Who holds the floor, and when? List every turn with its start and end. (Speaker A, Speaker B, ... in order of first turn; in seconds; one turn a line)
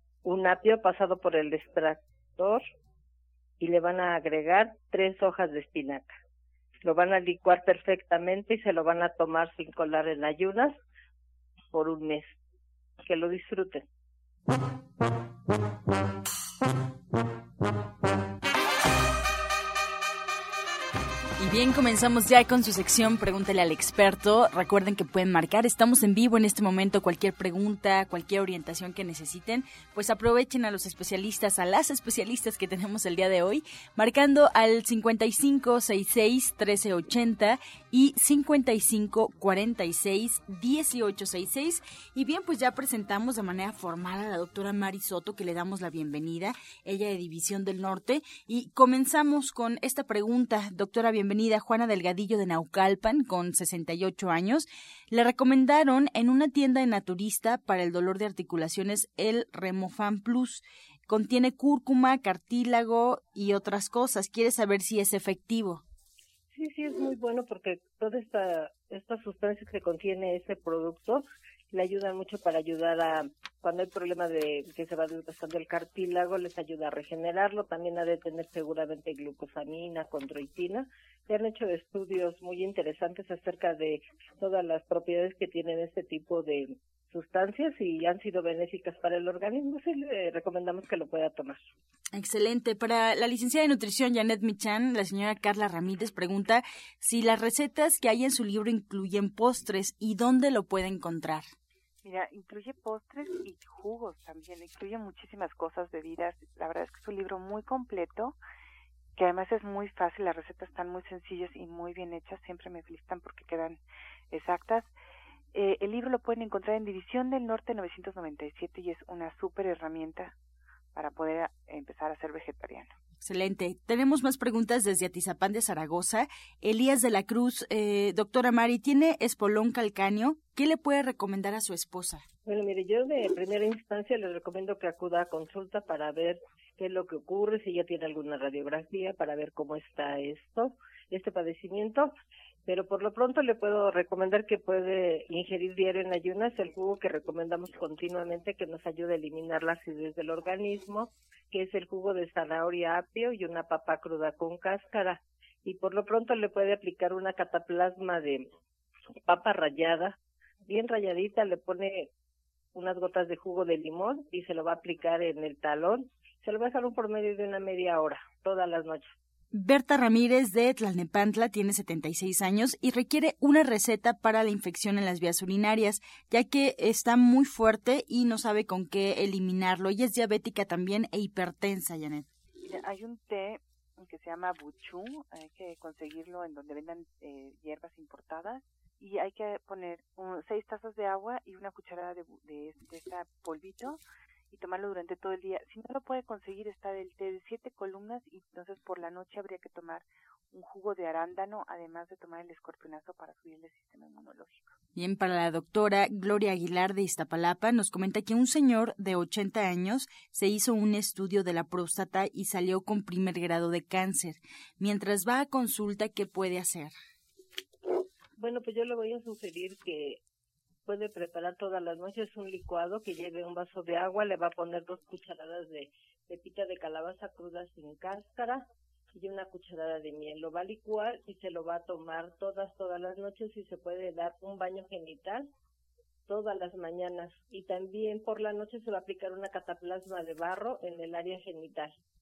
Speaker A: 0.2-2.6
Speaker A: 3.6-6.1
Speaker A: 6.8-10.8
Speaker A: 11.7-12.3
Speaker A: 13.0-13.8
Speaker B: 21.4-65.8
Speaker A: 66.5-91.7
Speaker B: 92.1-101.4
Speaker C: 102.0-108.4
Speaker C: 109.2-113.8
Speaker C: 114.3-114.9
Speaker C: 115.5-120.3
Speaker C: 120.9-122.9
Speaker B: 123.2-132.2
Speaker A: 132.4-142.1
Speaker A: 142.7-158.5
Speaker A: 159.2-162.1
Speaker A: 162.7-169.1
Speaker B: 169.5-182.3
Speaker C: 182.6-194.0
Speaker C: 194.5-204.7
Speaker B: 204.9-216.9
Speaker A: 218.4-220.2
Speaker A: 220.8-235.5
Speaker A: 236.3-241.9